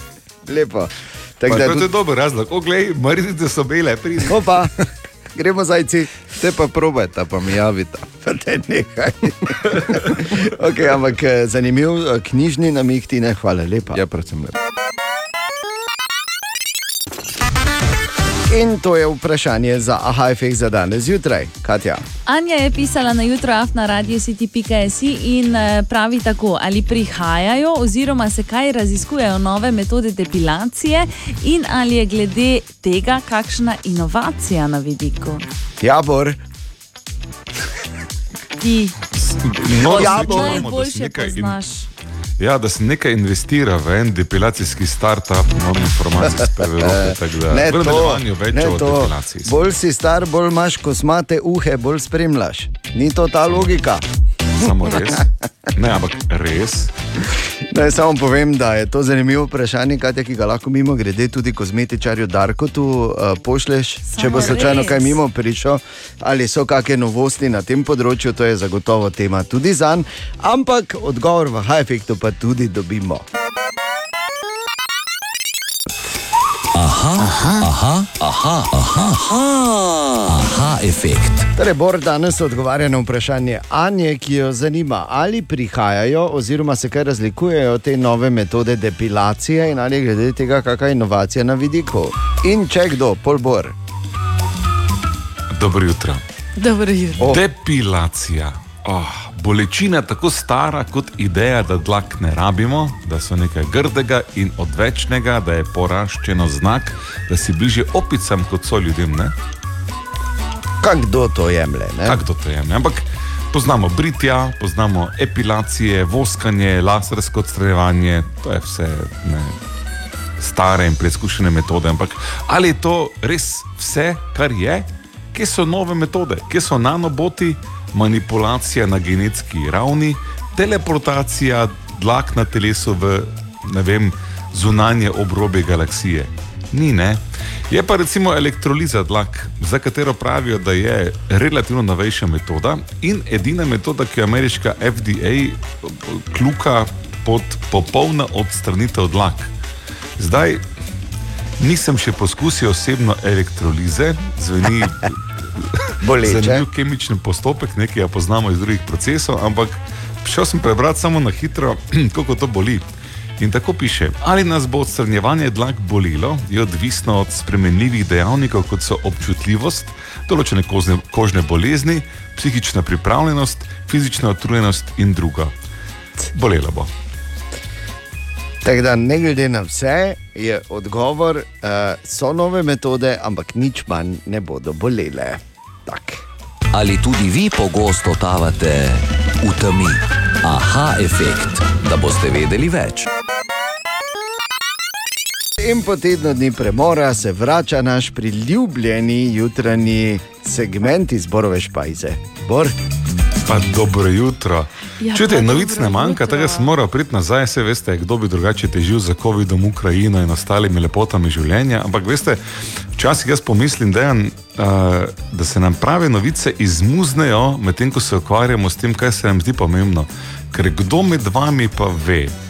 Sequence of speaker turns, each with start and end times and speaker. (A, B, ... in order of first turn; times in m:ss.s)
0:00.4-0:01.9 A
0:01.5-0:04.4 B
0:04.3-0:04.7 A
0:05.3-0:06.1 A
0:06.4-0:08.1 C
0:08.2-0:14.0 A
0:13.9-0:14.5 C
0:18.5-0:22.0 A
0:22.2-0:35.4 D
0:35.8-0:36.4 A
0:38.6-0:39.0 D
0:39.1-0:41.6 B
0:39.8-0:40.6 A
0:39.9-0:41.9 D
0:42.4-0:49.7 B
0:46.2-0:54.0 A
0:54.6-0:55.2 B
0:54.6-0:55.2 A
0:55.7-0:56.9 B
0:57.3-1:13.2 A
1:04.1-1:05.2 D
1:16.7-1:21.5 E
1:21.6-1:33.7 A
1:35.5-1:36.2 B
1:36.6-1:37.3 D
1:37.2-1:37.4 A
1:37.2-1:49.3 B
1:50.8-1:52.2 A
1:52.0-1:59.5 B
2:00.4-2:29.5 B
2:30.2-2:30.6 B
2:31.6-2:35.2 B
2:35.8-2:42.8 B
2:36.0-2:36.6 A
2:43.4-2:55.5 B
2:56.3-2:56.9 B
2:58.6-3:06.2 A
3:06.7-3:13.1 E
3:15.6-3:22.7 A
3:23.4-3:32.4 B
3:25.0-3:26.7 D
3:33.0-3:42.3 B